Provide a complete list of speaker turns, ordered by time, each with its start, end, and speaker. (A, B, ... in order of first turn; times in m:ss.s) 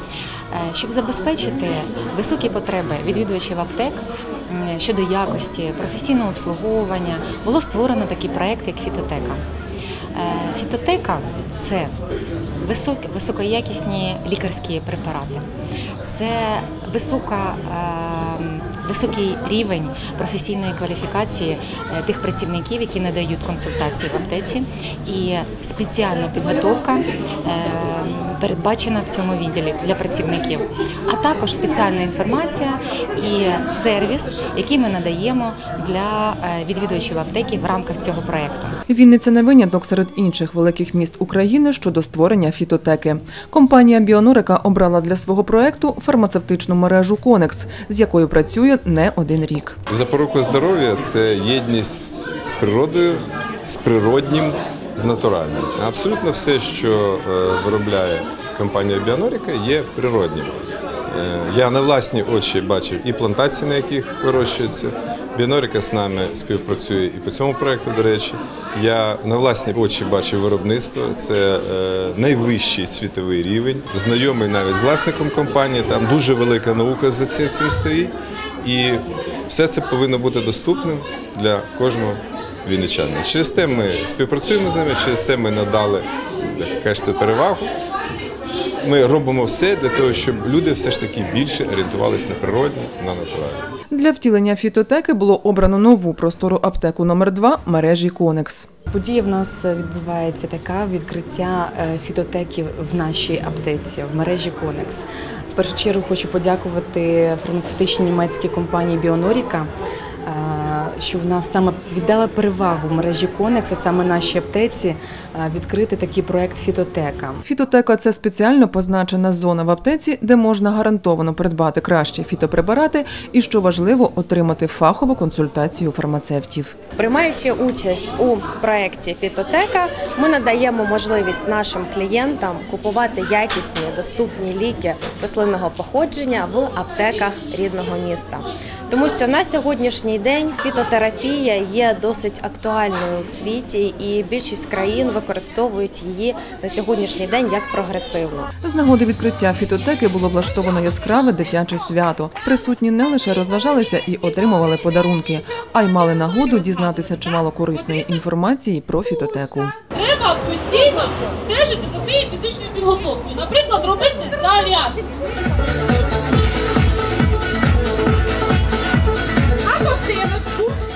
0:00.5-0:09.4 A
0:10.1-0:12.0 A
0:12.6-0:15.5 A
0:16.0-0:38.8 A
0:38.9-0:49.8 B
0:49.9-1:00.6 C
1:01.1-1:27.7 C
1:28.8-1:33.7 C
1:33.9-1:38.7 B
1:38.9-1:49.7 D
1:50.3-1:57.4 D
1:57.4-2:06.8 B
2:07.0-2:28.5 E
2:28.6-2:39.8 B
2:39.9-2:45.2 F
2:49.7-2:50.7 F